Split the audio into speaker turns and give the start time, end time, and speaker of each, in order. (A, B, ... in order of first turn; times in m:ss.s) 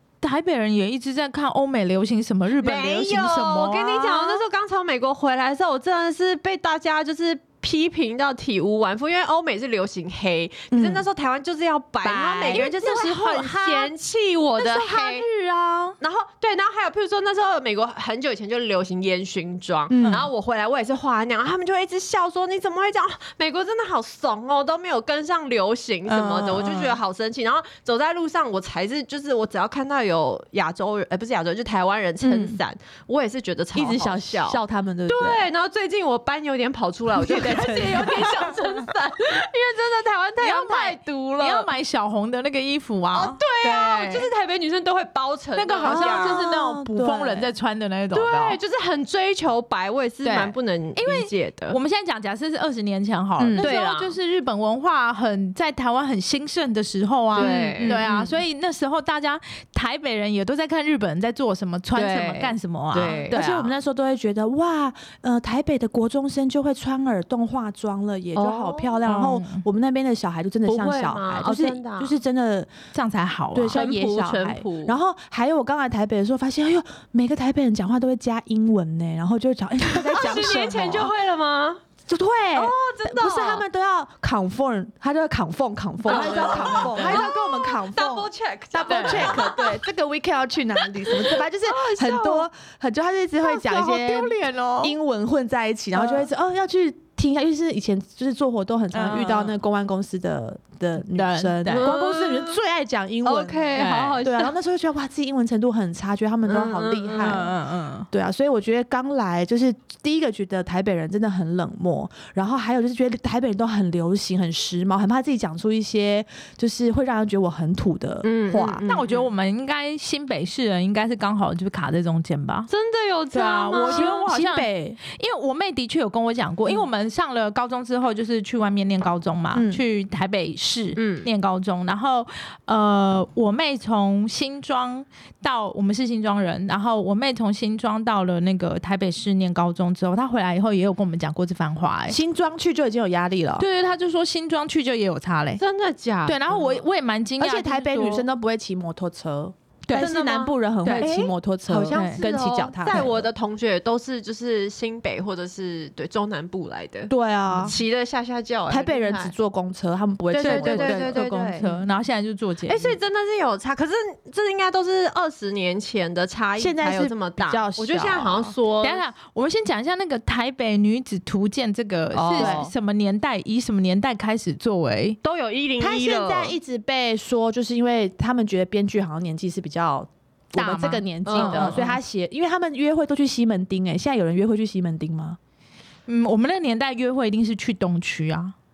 0:00.2-0:04.4 A
0:02.6-0:15.3 B
0:10.7-0:11.1 C
0:12.0-0:13.9 C
0:14.6-0:16.0 A
0:16.0-0:41.7 B
0:19.9-0:20.3 C
0:20.0-0:20.3 A
0:26.1-0:27.0 A
0:32.2-0:32.6 C
0:33.7-0:35.5 C
0:37.2-0:38.6 C
0:40.4-0:44.2 A
0:43.1-0:46.4 B
0:45.6-0:48.6 A
0:45.8-0:47.5 C
0:48.1-0:51.8 B
0:50.2-1:03.7 A
0:53.4-0:53.7 C
0:53.5-0:54.2 B
0:57.3-0:58.4 B
0:57.4-0:58.1 C
1:01.9-1:03.4 B
1:03.0-1:12.7 C
1:08.4-1:09.0 B
1:09.0-1:09.6 A
1:10.7-1:12.2 B
1:12.9-1:13.8 A
1:13.6-1:21.1 C
1:13.7-1:15.0 B
1:20.0-1:21.8 B
1:22.1-1:47.5 C
1:22.6-1:23.6 B
1:26.1-1:29.8 B
1:26.1-1:27.2 A
1:28.9-1:29.4 A
1:30.8-1:32.5 B
1:33.4-1:34.9 A
1:38.9-1:39.6 A
1:41.1-1:41.9 A
1:41.7-1:42.6 B
1:43.2-1:44.6 B
1:43.8-1:44.2 A
1:46.5-1:47.5 B
1:47.2-1:48.1 A
1:48.1-1:58.8 C
1:58.2-1:59.3 B
1:58.9-2:02.7 A
2:02.7-2:04.2 B
2:03.3-2:22.2 A
2:03.7-2:05.0 C
2:09.5-2:09.8 C
2:11.0-2:11.3 B
2:22.1-2:23.7 C
2:23.6-2:25.6 A
2:25.6-2:26.8 B
2:26.3-2:28.3 A
2:27.4-2:33.3 C
2:29.9-2:39.3 B
2:31.9-2:32.2 A
2:37.1-2:37.8 C
2:38.7-2:41.8 C
2:40.3-2:43.0 A
2:40.3-2:41.7 B
2:42.7-2:49.0 B
2:46.6-2:48.5 C
2:48.8-2:55.2 A
2:52.1-2:52.7 B
2:52.4-2:52.7 C
2:55.2-2:56.6 B
2:55.8-3:05.4 C
3:00.6-3:02.0 A
3:01.3-3:01.9 B
3:06.1-3:08.6 A